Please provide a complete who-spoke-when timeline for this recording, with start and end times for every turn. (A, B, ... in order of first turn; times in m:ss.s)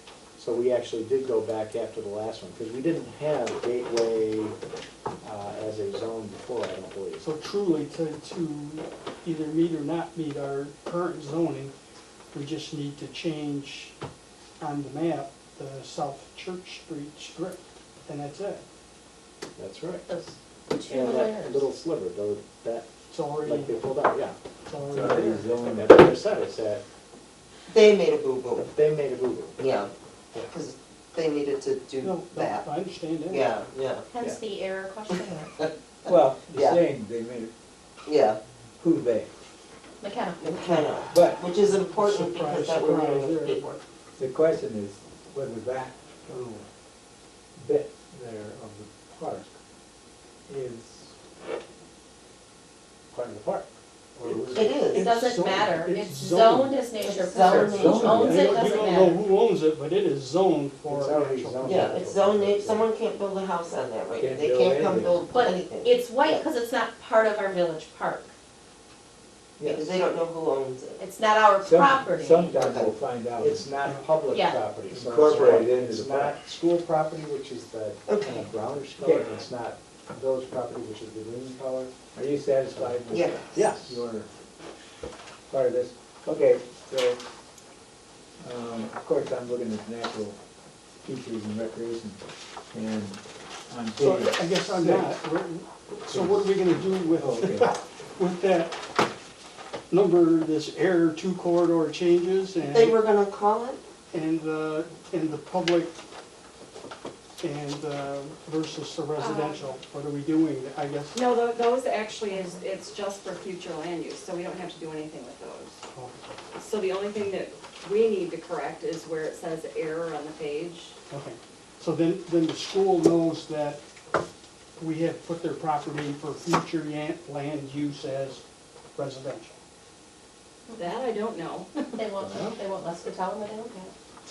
0:00.4-0:04.6 A
0:05.2-0:07.2 A
0:07.2-0:11.7 B
0:12.3-0:13.9 B
0:14.6-0:18.6 B
0:19.6-0:20.0 A
0:20.1-0:21.7 C
0:20.9-0:22.9 A
0:23.1-0:23.8 B
0:23.4-0:24.4 A
0:24.6-0:25.4 B
0:24.9-0:26.0 D
0:25.0-0:26.8 A
0:27.7-0:28.7 E
0:28.7-0:29.6 A
0:29.6-0:29.9 E
0:30.4-0:32.7 E
0:32.0-0:33.5 B
0:33.3-0:34.1 E
0:34.1-0:35.7 C
0:35.1-0:36.8 E
0:36.0-0:37.5 D
0:38.0-0:38.4 E
0:38.8-0:39.3 D
0:40.0-0:40.8 C
0:40.4-0:43.8 E
0:41.1-0:41.4 D
0:41.7-0:43.8 B
0:44.1-0:46.4 D
0:47.6-0:49.6 D
0:50.5-0:51.1 D
0:53.1-0:53.6 A
0:53.1-0:53.4 D
0:54.2-0:54.8 A
0:54.2-0:55.1 E
0:54.6-0:56.8 B
0:54.9-0:59.2 C
0:57.0-0:58.5 E
0:57.4-0:58.6 D
0:57.5-1:02.0 B
1:00.9-1:02.9 A
1:01.6-1:06.4 E
1:04.1-1:05.2 D
1:05.3-1:08.3 C
1:09.6-1:09.9 D
1:09.6-1:11.0 E
1:11.0-1:12.6 C
1:11.6-1:13.7 D
1:12.6-1:12.9 E
1:13.4-1:21.9 A
1:13.8-1:14.1 B
1:14.2-1:14.6 C
1:14.9-1:16.4 D
1:15.3-1:15.6 C
1:18.1-1:18.5 E
1:19.0-1:19.3 D
1:22.1-1:24.3 D
1:23.1-1:23.6 E
1:23.5-1:24.0 A
1:25.5-1:27.2 D
1:28.4-1:30.4 D
1:31.0-1:32.2 D
1:32.7-1:35.1 D
1:34.0-1:38.8 B
1:36.1-1:36.5 D
1:37.1-1:37.7 D
1:39.9-1:43.0 B
1:42.6-1:43.8 E
1:44.1-1:45.9 B
1:47.4-1:51.2 B
1:49.2-1:49.7 C
1:51.1-1:55.8 F
1:56.5-2:01.0 F
2:01.1-2:03.8 B
2:04.8-2:08.4 B
2:09.0-2:09.6 B
2:10.7-2:11.0 C
2:10.8-2:12.1 F
2:12.0-2:13.9 C
2:12.2-2:12.6 A